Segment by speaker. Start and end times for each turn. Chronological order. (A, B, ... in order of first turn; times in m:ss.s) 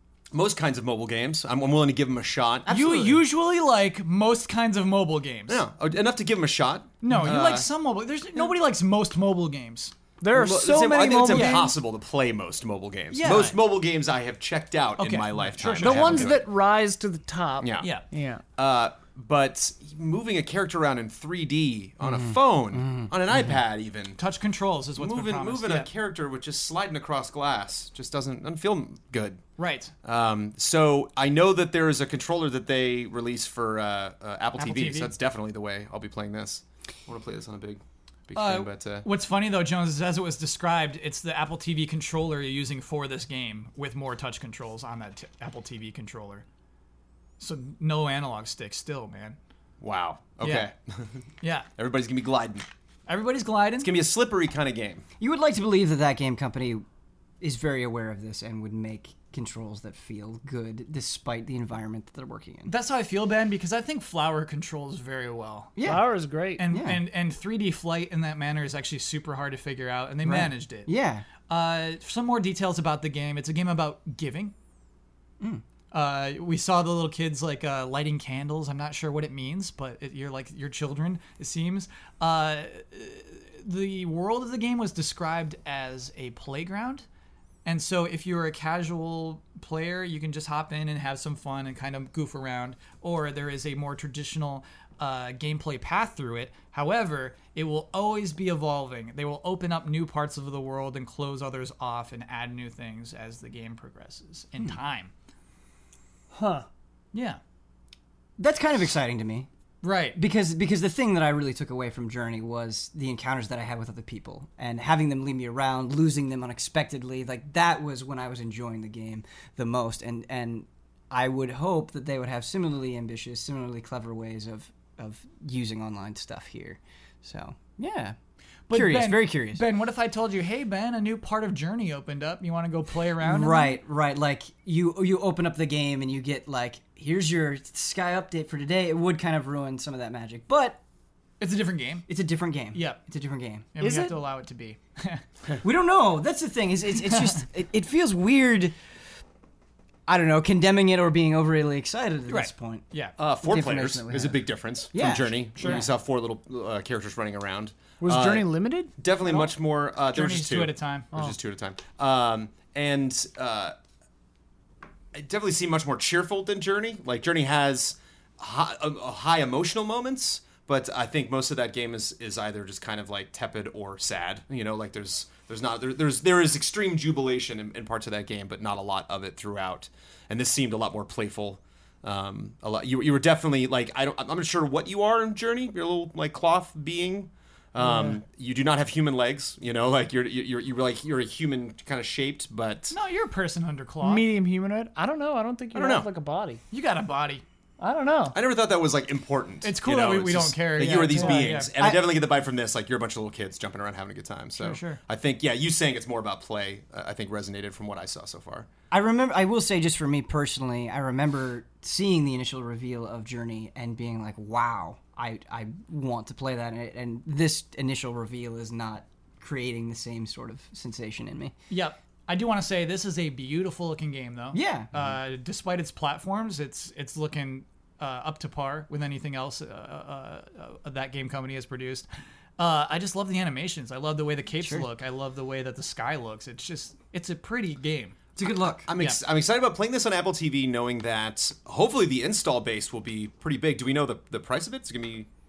0:00.3-0:02.7 A
0:02.6-0:03.2 B
0:02.7-0:05.6 C
0:05.5-0:07.7 A
0:07.0-0:09.9 C
0:10.2-0:11.7 D
0:10.3-0:16.4 A
0:11.3-0:11.7 C
0:13.1-0:13.6 C
0:15.0-0:16.4 C
0:15.8-0:18.4 D
0:17.6-0:17.9 A
0:18.6-0:24.2 A
0:22.0-0:23.5 B
0:24.2-0:25.9 C
0:25.0-0:29.4 A
0:29.6-0:29.9 C
0:30.0-0:39.0 A
0:34.6-0:35.1 C
0:38.4-0:46.4 C
0:47.4-0:49.4 C
0:49.8-0:51.1 A
0:50.4-0:50.7 C
0:51.4-0:51.7 C
0:51.8-0:52.6 A
0:53.1-0:53.9 C
0:53.8-0:55.0 A
0:55.2-0:56.8 B
0:57.4-1:02.7 B
1:02.7-1:05.7 C
1:05.8-1:06.1 B
1:05.8-1:06.6 D
1:06.6-1:10.9 C
1:06.6-1:07.0 B
1:10.2-1:11.2 B
1:11.5-1:14.5 C
1:15.9-1:27.0 C
1:27.6-1:45.1 C
1:46.3-1:46.6 D
1:47.1-1:47.4 C
1:48.4-1:49.5 B
1:49.8-1:50.2 C
1:50.1-2:08.2 B
2:08.7-2:13.8 C
2:08.7-2:09.6 B
2:13.2-2:20.8 B
2:21.4-2:22.1 C
2:22.1-2:23.7 B
2:22.7-2:23.0 C
2:23.7-2:25.2 C
2:23.8-2:24.1 D
2:25.6-2:28.7 B
2:30.1-2:32.8 B
2:32.3-2:33.1 C
2:33.2-2:43.7 A
2:33.4-2:34.4 B
2:34.9-2:35.9 B
2:35.6-2:35.8 C
2:38.0-2:38.9 D
2:40.1-2:41.1 C
2:45.1-3:13.0 A
3:07.8-3:08.2 D
3:12.9-3:14.3 C
3:14.0-3:16.6 D
3:15.7-3:16.1 A
3:16.7-3:17.4 C
3:17.8-3:18.4 D
3:18.3-3:28.7 A
3:19.6-3:21.7 C
3:21.0-3:21.5 D
3:21.8-3:22.0 B
3:24.6-3:25.0 C
3:28.9-3:41.5 B
3:41.7-3:52.1 C
3:44.5-3:44.9 B
3:52.6-3:58.2 C
3:54.6-3:54.8 B
3:58.4-3:58.9 B
3:58.8-4:05.3 A